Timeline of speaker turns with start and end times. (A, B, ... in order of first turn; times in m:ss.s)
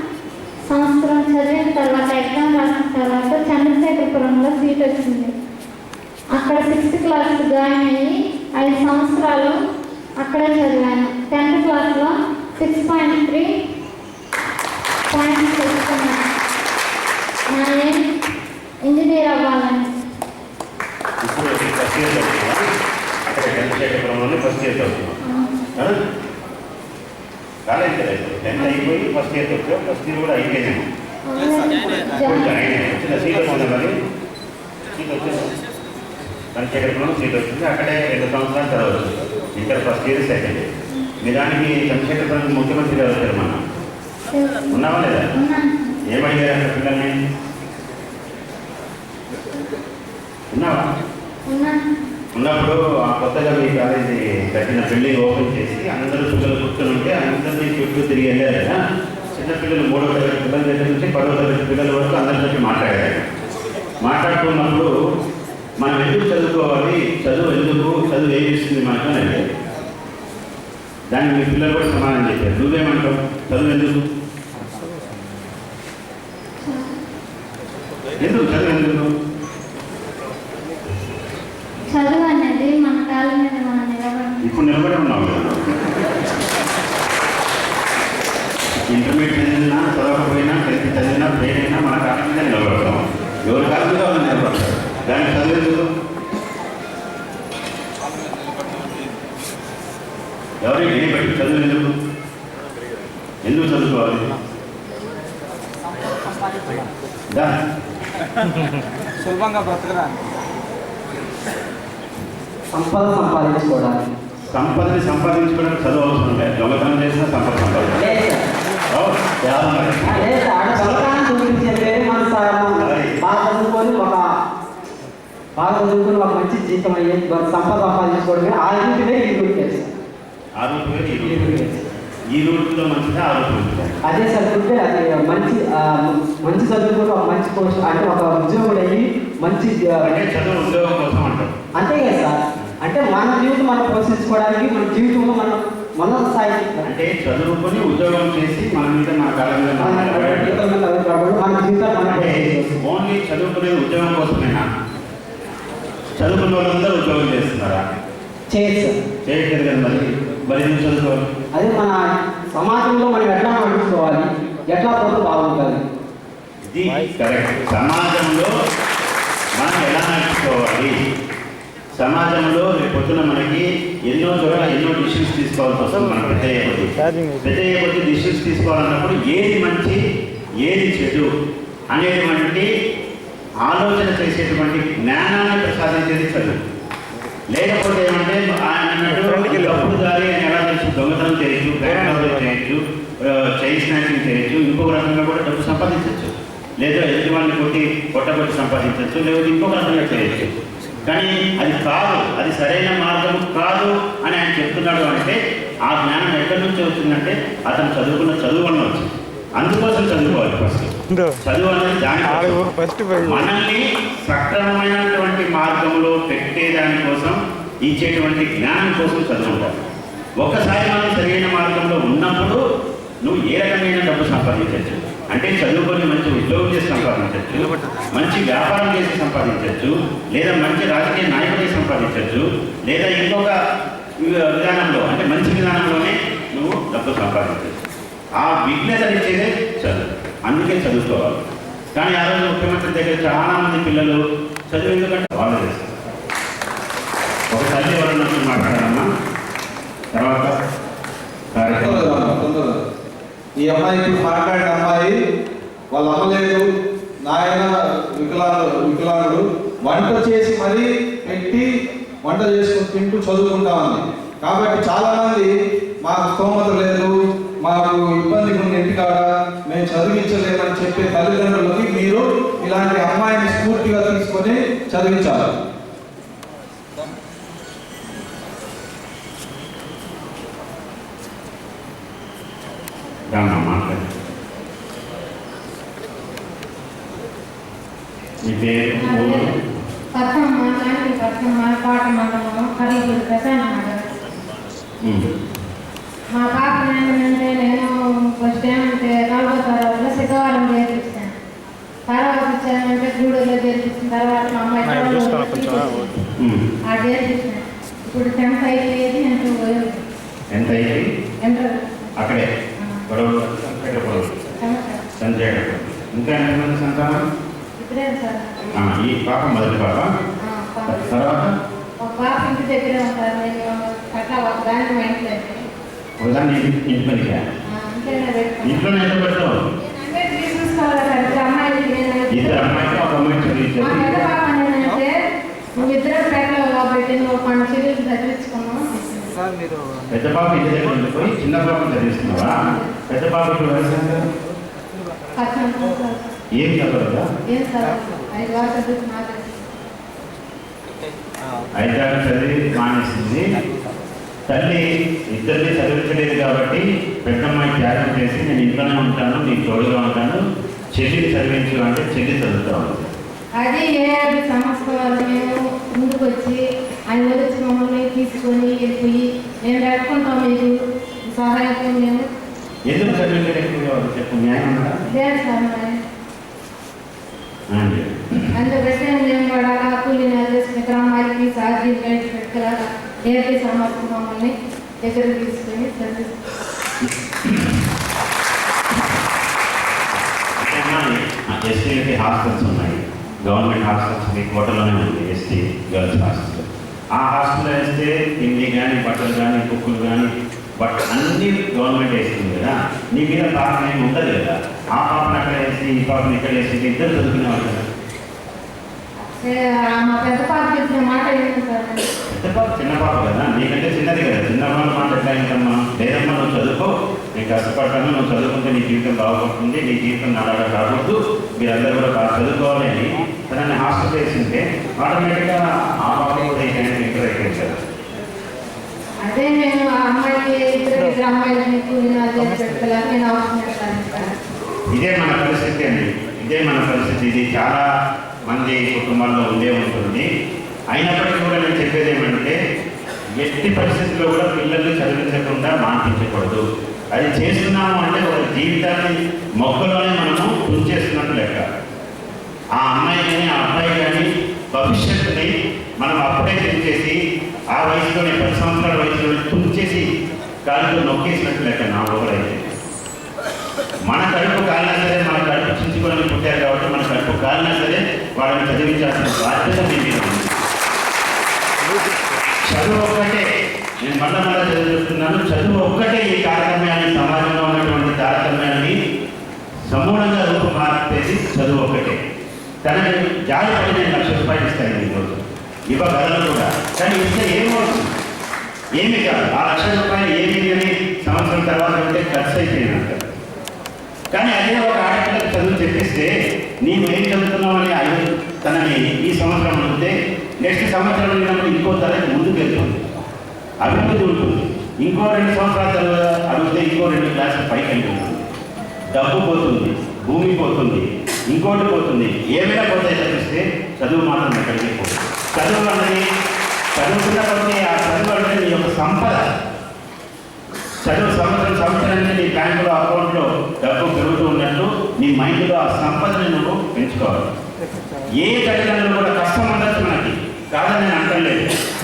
0:00.7-0:05.3 A
0:06.4-0:09.6 A
0:10.2-0:13.5 A
0:15.1-0:16.2 A
0:17.5-0:18.0 A
0:18.9-0:19.9 A
0:21.2-0:22.6 B
0:23.3-0:25.2 B
0:25.2-0:25.6 A
0:27.7-0:30.8 B
0:28.6-0:29.0 A
0:31.3-0:32.5 A
0:32.2-0:33.9 B
0:35.0-0:35.5 B
0:36.6-0:40.7 B
0:41.2-0:43.6 B
0:44.3-0:46.0 A
0:44.7-0:45.3 B
0:46.1-0:47.1 B
0:50.5-0:50.8 B
0:51.5-0:51.8 A
0:52.4-0:58.8 B
0:59.4-1:03.2 B
1:04.0-1:04.9 B
1:05.8-1:09.4 B
1:11.1-1:14.0 B
1:16.6-1:16.9 A
1:18.2-1:19.1 B
1:21.9-1:24.4 A
1:24.4-1:25.7 B
1:28.9-1:35.9 B
1:40.6-1:41.9 B
1:43.5-1:44.2 B
1:52.7-1:54.0 C
1:54.5-1:58.0 B
1:58.0-1:58.4 C
1:58.9-2:01.1 B
2:00.0-2:04.2 C
2:02.8-2:03.2 B
2:05.6-2:09.9 C
2:10.6-2:11.5 B
2:11.2-2:11.9 C
2:12.4-2:14.0 B
2:14.0-2:20.1 C
2:20.0-2:21.5 B
2:21.8-2:26.8 C
2:26.8-2:30.6 B
2:29.8-2:32.7 C
2:32.1-2:34.7 B
2:36.2-2:37.8 B
2:38.5-2:39.0 C
2:39.3-2:41.2 B
2:41.5-2:42.0 C
2:42.5-2:45.8 C
2:46.7-2:48.5 B
2:49.6-2:51.0 B
2:52.0-3:00.0 B
3:00.6-3:01.3 B
3:01.9-3:02.7 B
3:03.7-3:06.6 B
3:07.5-3:20.5 B
3:21.1-3:39.7 B
3:40.4-3:42.6 B
3:43.2-3:53.5 B
3:54.2-3:57.8 B
3:58.4-4:01.4 B
4:02.0-4:04.2 B
4:04.7-4:06.0 B
4:07.5-4:09.1 B
4:10.1-4:10.6 B
4:11.6-4:12.2 B
4:11.6-4:12.8 D
4:13.6-4:15.1 D
4:15.9-4:16.7 D
4:17.2-4:21.7 D
4:22.2-4:25.5 D
4:26.0-4:27.1 D
4:27.6-4:35.5 D
4:43.3-4:44.0 B
4:48.5-4:49.5 B
4:49.0-4:49.5 E
4:50.2-4:54.1 E
4:56.3-5:01.3 E
5:02.1-5:06.2 E
5:06.9-5:10.0 E
5:10.5-5:11.1 B
5:11.4-5:12.1 E
5:12.2-5:12.4 B
5:13.1-5:14.3 B
5:14.6-5:15.0 E
5:15.2-5:17.2 B
5:17.8-5:18.7 E
5:18.8-5:20.1 B
5:20.4-5:21.3 E
5:20.9-5:21.5 B
5:22.0-5:25.6 E
5:26.2-5:27.4 B
5:27.7-5:28.9 E
5:28.6-5:29.5 B
5:29.9-5:33.1 E
5:32.3-5:34.2 B
5:33.8-5:35.2 E
5:35.8-5:39.4 E
5:40.1-5:44.2 B
5:42.3-5:43.0 E
5:45.4-5:46.3 E
5:46.6-5:47.2 B
5:47.5-5:49.6 E
5:51.8-5:53.4 B
5:54.5-6:00.4 B
6:01.0-6:03.1 B
6:03.6-6:10.7 E
6:11.3-6:12.2 E
6:12.9-6:15.0 B
6:15.1-6:16.0 E
6:17.7-6:18.4 B
6:18.5-6:26.3 E
6:27.0-6:27.8 B
6:30.6-6:47.8 B
6:49.2-6:52.1 E
6:52.3-7:07.8 B
7:09.3-7:14.3 E
7:14.9-7:17.8 B
7:18.5-7:20.2 B
7:20.9-7:22.6 B
7:23.4-7:26.6 B
7:27.1-7:31.6 B
7:32.8-7:37.2 B
7:37.8-7:40.1 B
7:40.7-7:42.6 B
7:44.1-7:50.5 B
7:52.7-7:53.4 B
7:54.0-7:59.0 B
7:59.9-8:02.2 B
8:02.9-8:08.1 B
8:09.0-8:13.3 B
8:14.3-8:16.3 B
8:16.8-8:23.0 B
8:23.8-8:28.4 B
8:29.1-8:36.2 B
8:37.0-8:39.4 B
8:41.0-8:47.5 B
8:48.4-8:51.7 B